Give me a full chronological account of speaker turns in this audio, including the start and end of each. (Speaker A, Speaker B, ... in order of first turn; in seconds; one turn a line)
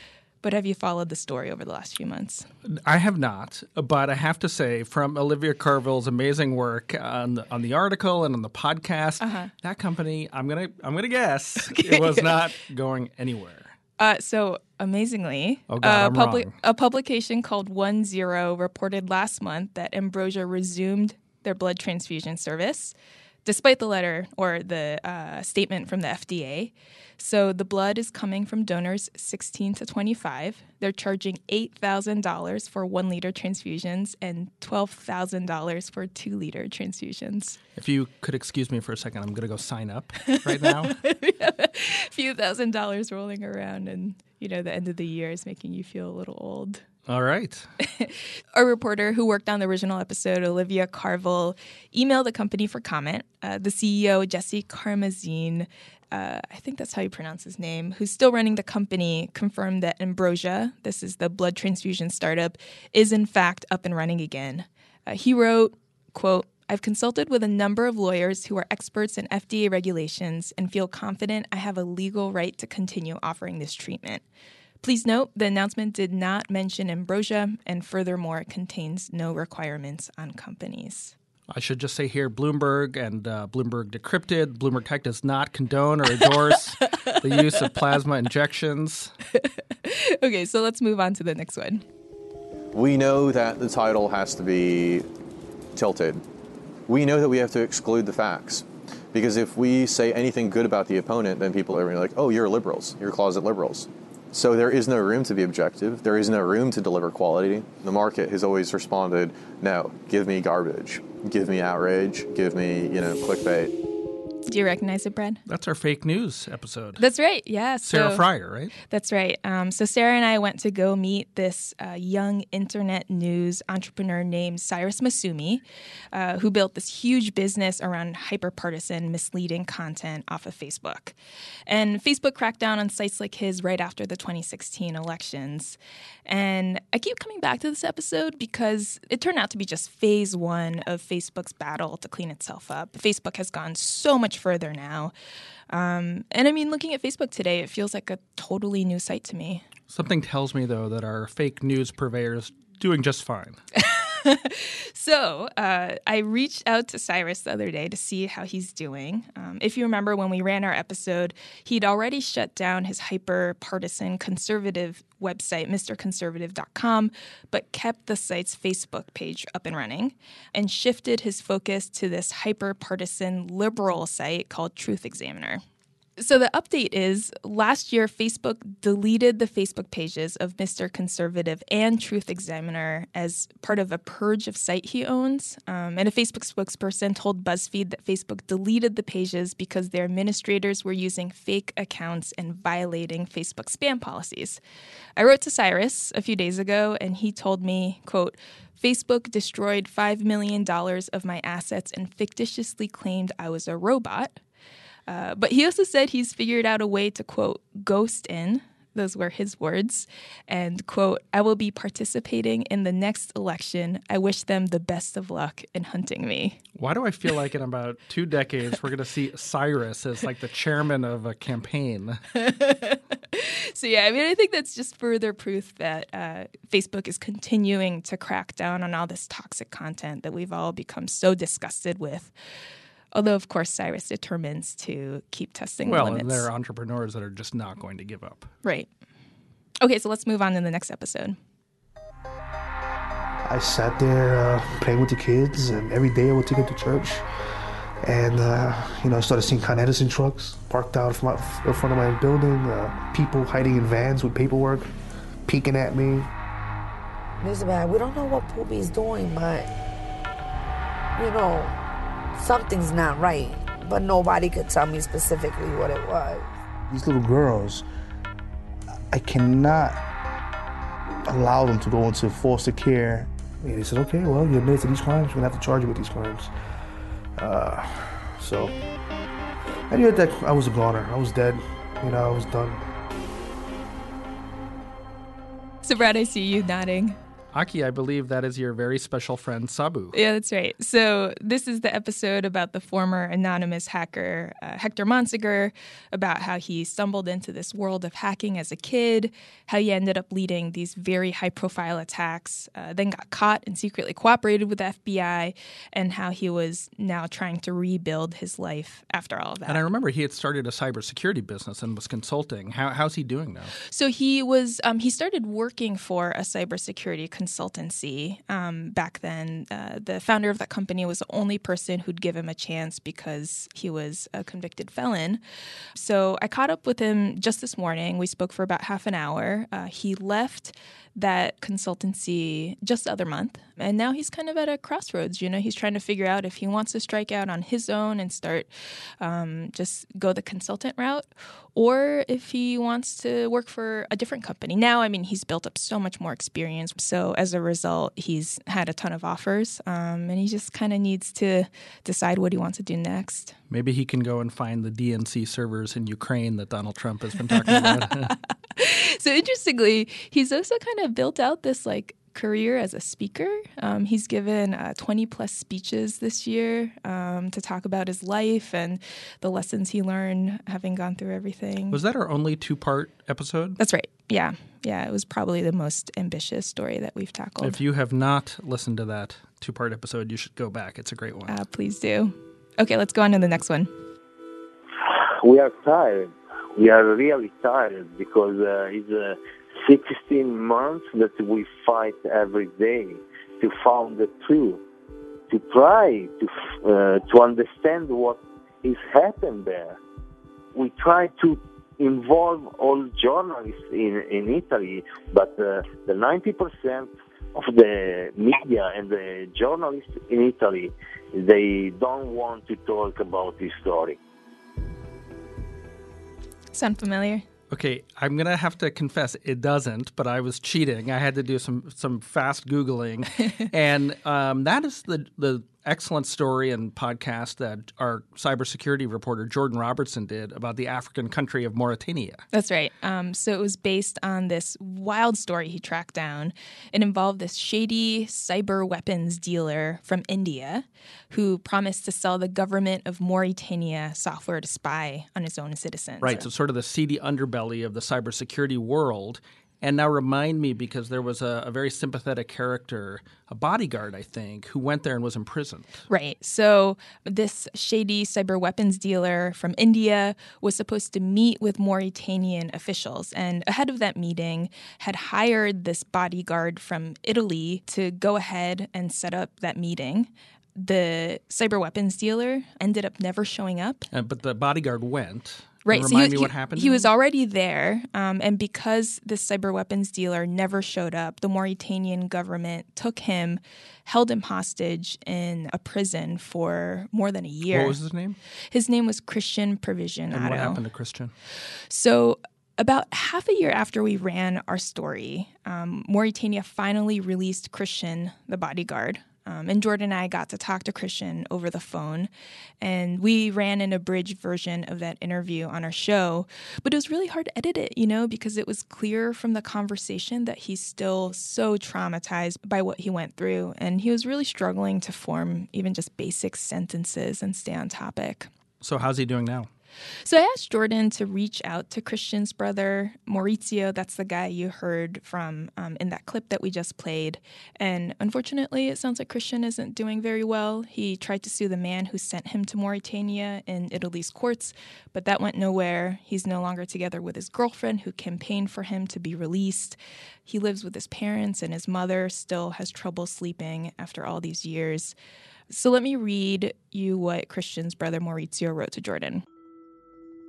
Speaker A: 0.4-2.5
Speaker B: 2.7-13.7
Speaker A: 9.2-9.5
Speaker A: 11.7-12.3
Speaker A: 14.0-37.6
Speaker B: 15.7-16.5
Speaker B: 37.8-41.0
Speaker A: 40.3-46.8
Speaker B: 47.1-47.7
Speaker A: 47.9-74.2
Speaker A: 74.8-81.1
Speaker B: 81.5-89.1
Speaker A: 89.3-91.8
Speaker C: 92.7-95.0
Speaker C: 95.7-96.2
Speaker C: 96.9-113.7
Speaker A: 114.5-115.4
Speaker B: 115.5-117.0
Speaker A: 117.0-118.2
Speaker B: 117.8-118.7
Speaker A: 118.9-131.1
Speaker A: 131.7-145.1
Speaker A: 145.7-149.6
Speaker B: 149.9-153.6
Speaker A: 153.7-175.6
Speaker A: 176.2-194.6
Speaker A: 195.2-204.4
Speaker A: 205.1-216.6
Speaker B: 216.8-222.2
Speaker A: 222.3-232.3
Speaker A: 233.1-236.5
Speaker B: 235.8-238.5
Speaker A: 238.6-238.9
Speaker A: 239.8-241.4
Speaker D: 243.4-247.2
Speaker D: 248.0-254.9
Speaker D: 255.4-256.3
Speaker E: 257.4-259.7
Speaker E: 261.1-261.8
Speaker E: 262.3-266.5
Speaker D: 266.9-267.8
Speaker D: 269.1-270.0
Speaker D: 271.2-276.5
Speaker D: 277.4-278.8
Speaker D: 279.9-282.8
Speaker A: 285.8-287.2
Speaker B: 287.5-290.2
Speaker A: 290.1-309.8
Speaker B: 309.7-313.7
Speaker A: 313.9-325.4
Speaker A: 325.9-353.5
Speaker B: 353.7-358.3
Speaker A: 357.7-358.1
Speaker A: 358.8-372.0
Speaker B: 371.9-373.8
Speaker A: 373.8-377.8
Speaker B: 377.6-381.6
Speaker A: 381.5-383.9
Speaker F: 385.1-394.8
Speaker F: 395.5-400.0
Speaker F: 400.7-414.2
Speaker A: 416.7-417.4
Speaker B: 417.7-432.4
Speaker A: 432.5-446.5
Speaker B: 446.2-456.0
Speaker A: 456.1-474.1
Speaker B: 474.1-477.1
Speaker A: 475.8-488.0
Speaker B: 487.7-488.4
Speaker A: 488.7-490.8
Speaker B: 490.3-491.3
Speaker A: 491.9-518.5
Speaker B: 518.8-519.7
Speaker A: 520.2-545.1
Speaker A: 545.7-549.4